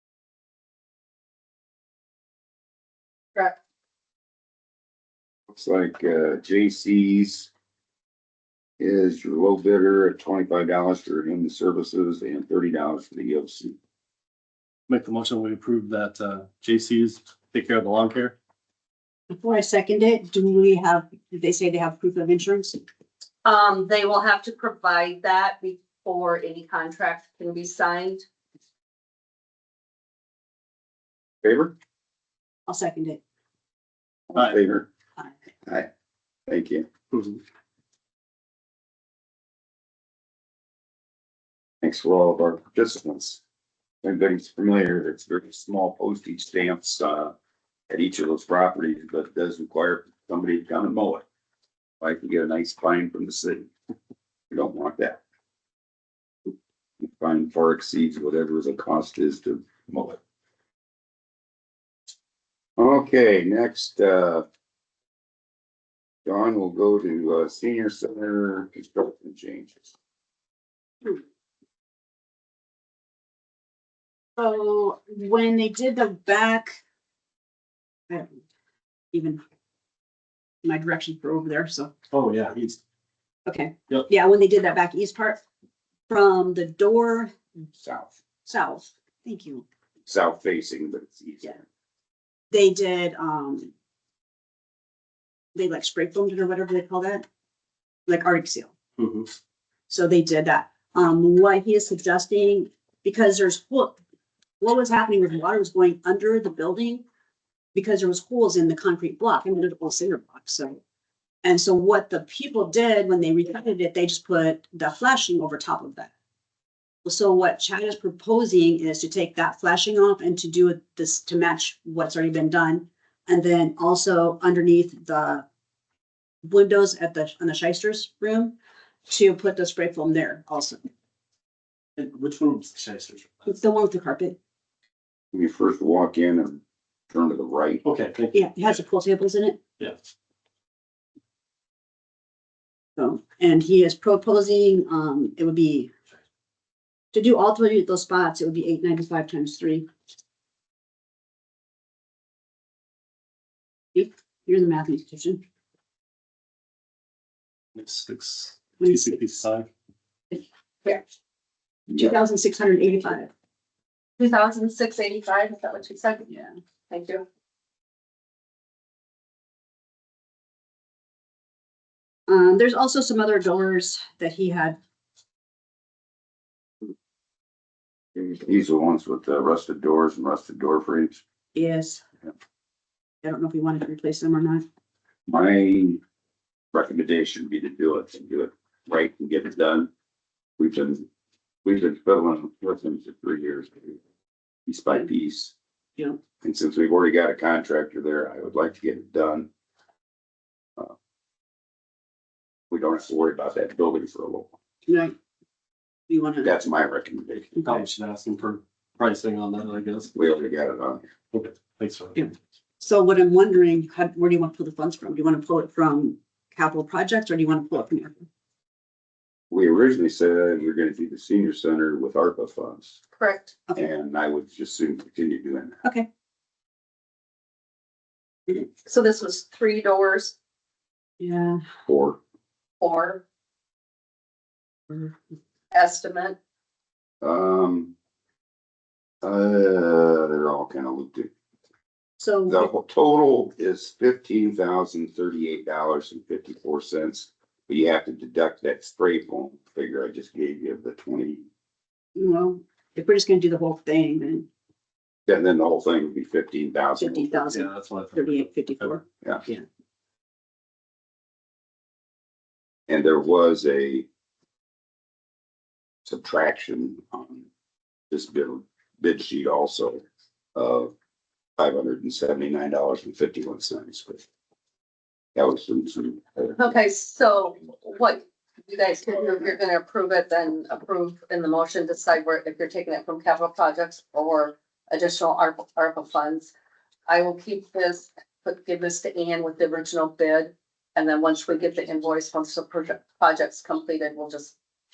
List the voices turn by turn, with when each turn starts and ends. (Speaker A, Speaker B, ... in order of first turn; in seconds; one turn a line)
Speaker A: 5.5-7.5
Speaker A: 8.8-13.8
Speaker B: 14.9-18.3
Speaker C: 19.3-22.8
Speaker D: 23.4-28.2
Speaker A: 31.4-31.7
Speaker C: 32.7-33.2
Speaker A: 34.3-34.9
Speaker A: 36.5-36.9
Speaker A: 41.8-43.4
Speaker A: 44.0-47.3
Speaker A: 47.9-51.2
Speaker A: 52.0-53.7
Speaker A: 54.5-55.2
Speaker A: 57.0-60.2
Speaker A: 62.8-64.5
Speaker A: 66.2-69.9
Speaker C: 74.4-76.8
Speaker C: 78.1-78.3
Speaker C: 79.1-79.4
Speaker C: 80.6-81.9
Speaker B: 82.1-82.8
Speaker C: 83.5-85.4
Speaker C: 86.1-87.3
Speaker A: 87.8-88.2
Speaker C: 88.5-89.7
Speaker A: 90.1-91.6
Speaker C: 92.5-93.7
Speaker C: 95.5-97.3
Speaker C: 98.1-98.7
Speaker B: 99.0-99.3
Speaker C: 99.9-104.0
Speaker C: 104.6-107.0
Speaker C: 107.8-110.8
Speaker C: 111.4-116.1
Speaker C: 117.0-125.4
Speaker C: 126.4-128.5
Speaker C: 129.1-130.8
Speaker B: 132.0-133.5
Speaker C: 133.5-134.4
Speaker A: 135.3-137.8
Speaker B: 137.8-138.7
Speaker C: 138.3-139.6
Speaker C: 143.0-145.9
Speaker C: 147.1-149.8
Speaker C: 153.9-155.4
Speaker B: 157.8-159.7
Speaker C: 160.3-161.0
Speaker C: 161.9-163.3
Speaker D: 164.2-166.3
Speaker D: 166.9-167.2
Speaker C: 172.3-174.8
Speaker A: 178.2-181.2
Speaker C: 181.5-182.0
Speaker C: 183.2-184.6
Speaker A: 185.3-186.0
Speaker A: 186.7-189.9
Speaker A: 190.6-191.1
Speaker A: 191.6-194.0
Speaker A: 194.7-195.5
Speaker A: 196.4-199.5
Speaker A: 202.7-204.5
Speaker C: 204.9-205.1
Speaker C: 206.1-206.5
Speaker A: 206.4-207.6
Speaker B: 207.6-210.1
Speaker A: 210.1-211.1
Speaker B: 211.3-212.3
Speaker C: 212.2-218.2
Speaker A: 219.5-223.0
Speaker D: 223.2-223.5
Speaker A: 223.8-225.8
Speaker D: 228.8-230.3
Speaker C: 231.2-231.6
Speaker A: 231.8-232.2
Speaker D: 232.8-233.2
Speaker D: 235.7-236.4
Speaker A: 237.2-237.9
Speaker A: 239.2-241.3
Speaker C: 242.2-242.7
Speaker A: 242.5-251.5
Speaker C: 252.2-254.5
Speaker A: 255.3-257.4
Speaker C: 257.0-259.6
Speaker B: 257.5-258.9
Speaker A: 262.9-264.1
Speaker A: 266.1-267.5
Speaker A: 268.1-270.0
Speaker A: 270.6-270.9
Speaker A: 271.6-274.2
Speaker A: 275.3-276.7
Speaker D: 276.6-286.5
Speaker D: 287.1-294.6